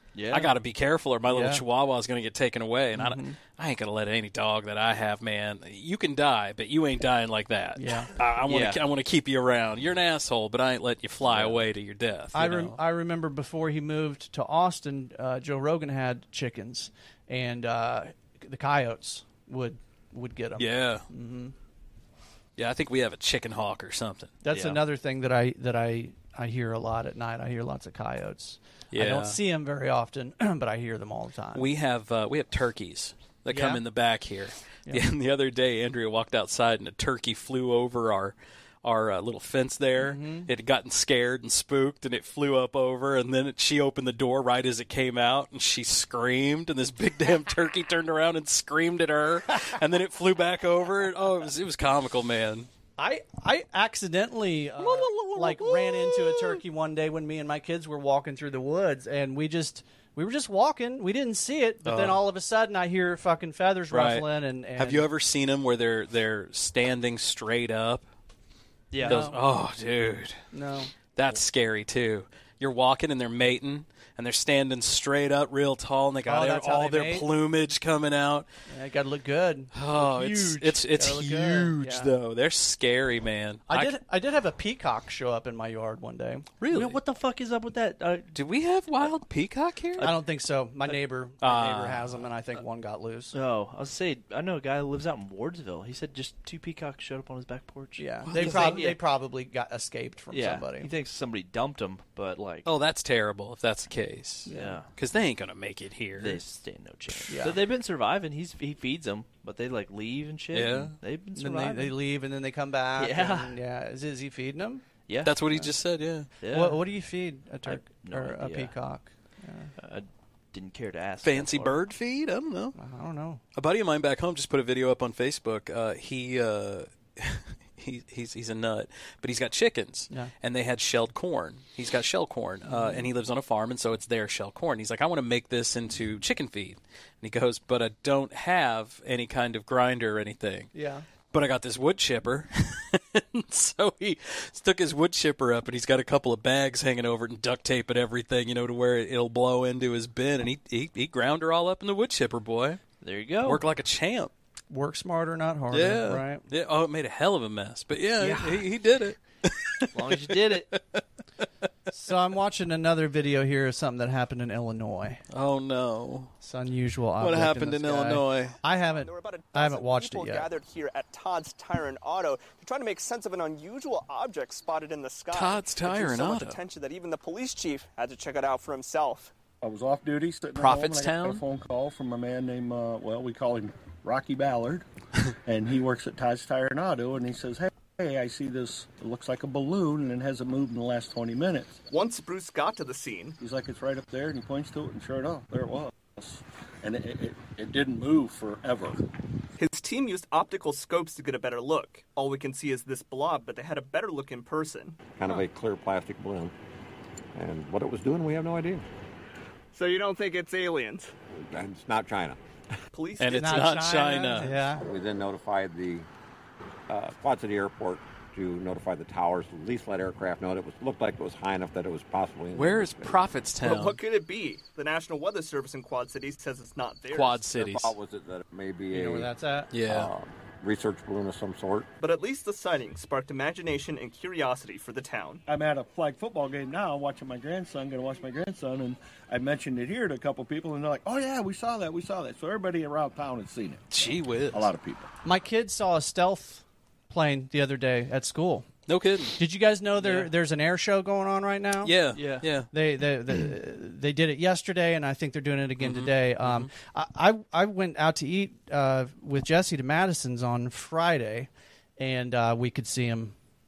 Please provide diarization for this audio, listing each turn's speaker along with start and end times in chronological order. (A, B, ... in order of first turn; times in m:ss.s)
0:00.1-0:00.5 A
0:00.3-0:12.8 B
0:01.3-0:01.6 C
0:03.0-0:03.4 C
0:07.8-0:08.1 C
0:08.4-0:08.8 A
0:12.3-0:21.6 C
0:20.6-0:21.1 B
0:22.6-0:24.4 B
0:24.4-0:31.7 C
0:24.5-0:24.8 A
0:28.9-0:29.4 B
0:31.6-0:52.7 B
0:33.5-0:33.8 C
0:40.0-0:40.5 C
0:53.0-1:05.1 C
0:54.8-0:56.6 B
1:01.8-1:02.2 B
1:03.9-1:08.1 B
1:08.9-1:09.3 A
1:09.0-1:09.4 C
1:09.0-1:10.4 B
1:10.5-1:10.9 C
1:11.2-1:18.5 B
1:16.3-1:17.3 C
1:18.7-1:22.1 C
1:19.7-1:24.0 B
1:23.7-1:26.5 C
1:26.6-1:27.0 B
1:26.7-1:28.3 A
1:28.3-1:30.1 B
1:30.0-1:33.3 C
1:31.4-1:32.1 B
1:33.3-1:39.0 A
1:38.0-1:40.9 C
1:38.2-1:38.9 B
1:40.3-1:42.7 A
1:42.6-1:46.4 B
1:44.5-1:44.8 C
1:44.5-1:44.9 A
1:46.2-1:52.0 A
1:47.3-1:47.6 C
1:50.5-1:51.0 B
1:51.4-1:54.8 C
1:53.0-1:53.6 A
1:55.1-1:55.4 A
1:55.2-1:56.3 B
1:56.4-1:56.8 A
1:56.5-1:59.7 C
1:57.6-1:58.8 A
1:59.8-2:01.8 A
2:01.2-2:02.8 B
2:02.8-2:03.4 C
2:03.6-2:20.7 B
2:12.7-2:13.1 C
2:20.7-2:21.1 C
2:21.3-2:32.8 B
2:33.0-2:33.6 A
2:33.4-2:34.3 B
2:34.7-2:36.4 C
2:35.7-2:41.5 B
2:38.2-2:38.7 C
2:39.9-2:40.8 A
2:41.9-2:45.2 C
2:45.3-2:46.3 B
2:46.4-2:50.5 C
2:47.2-2:48.6 B
2:48.8-2:59.3 D
2:55.3-2:56.6 B
2:59.6-3:04.8 E
3:00.6-3:01.4 B
3:05.5-3:11.8 E
3:11.9-3:13.4 D
3:13.4-3:19.0 E
3:19.6-3:25.4 D
3:25.2-3:26.5 F
3:27.4-3:28.9 F
3:29.7-3:31.1 D
3:31.4-3:32.4 F
3:32.9-3:34.5 D
3:33.2-3:34.5 B
3:33.4-3:34.8 C
3:34.8-3:36.1 F
3:36.9-3:43.2 F
3:42.5-3:44.0 B
3:43.6-3:47.5 D
3:47.1-3:48.0 B
3:47.6-3:49.3 F
3:48.9-3:49.7 C
3:49.7-3:50.1 B
3:49.8-3:51.9 F
3:52.0-3:55.4 D
3:55.5-4:05.1 E
4:03.9-4:04.7 B
4:05.2-4:08.7 C
4:08.9-4:09.4 B
4:09.4-4:12.0 C
4:10.0-4:10.3 A
4:11.8-4:12.7 B
4:12.2-4:12.5 A
4:12.7-4:23.4 C
4:15.8-4:16.7 B